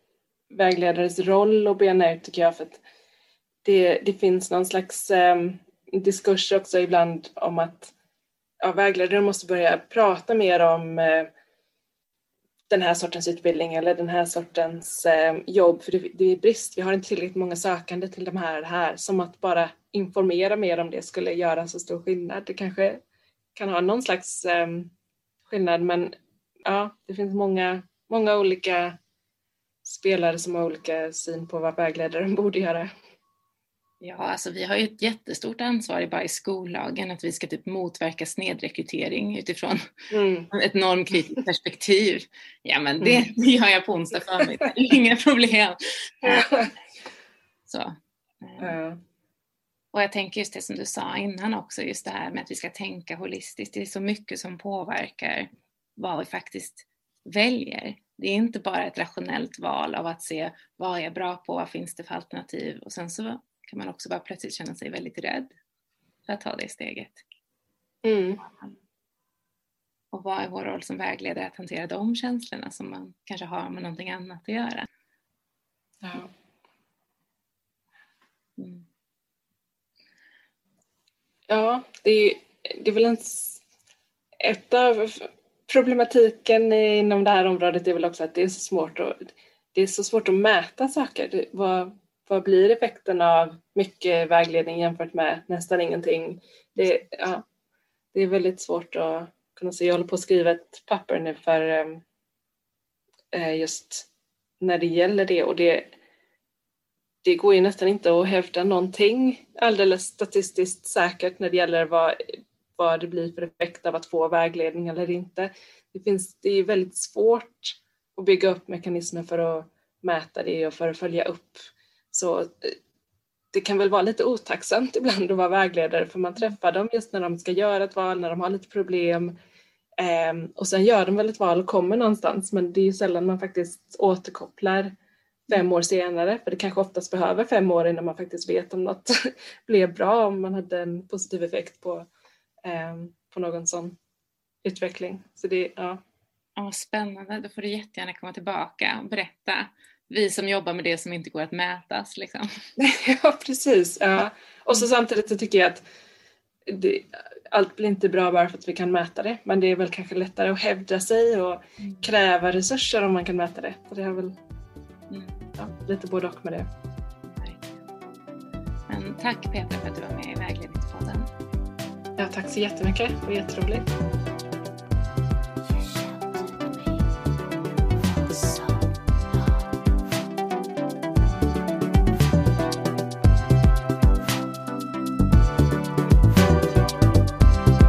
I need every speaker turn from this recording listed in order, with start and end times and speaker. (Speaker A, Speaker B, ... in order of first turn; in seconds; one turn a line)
Speaker A: 0.5-2.8
Speaker A: 3.6-7.9
Speaker A: 8.6-11.3
Speaker A: 12.7-23.0
Speaker A: 23.6-24.9
Speaker A: 25.5-26.1
Speaker A: 26.6-29.0
Speaker A: 29.8-32.9
Speaker B: 34.0-39.9
Speaker A: 40.1-40.5
Speaker B: 40.5-46.5
Speaker A: 43.0-43.3
Speaker A: 44.4-44.7
Speaker A: 46.2-46.7
Speaker B: 47.7-48.8
Speaker A: 48.6-49.0
Speaker B: 49.9-65.5
Speaker B: 66.3-67.2
Speaker A: 68.0-68.4
Speaker B: 68.4-68.8
Speaker B: 70.1-74.9
Speaker A: 76.0-76.3
Speaker B: 78.6-78.8
Speaker A: 81.5-83.6
Speaker A: 84.4-97.4
Speaker A: 98.1-102.0
Speaker A: 103.3-104.1
Speaker A: 104.6-105.9
Speaker A: 107.2-122.8
Speaker A: 123.5-129.3
Speaker A: 130.0-134.9
Speaker A: 135.5-142.1
Speaker A: 142.7-144.0
Speaker A: 144.6-146.0
Speaker B: 146.6-152.5
Speaker A: 152.8-155.8
Speaker A: 156.7-164.3
Speaker B: 165.1-165.4
Speaker A: 165.6-166.7
Speaker B: 167.3-167.7
Speaker B: 168.9-171.3
Speaker A: 172.2-173.9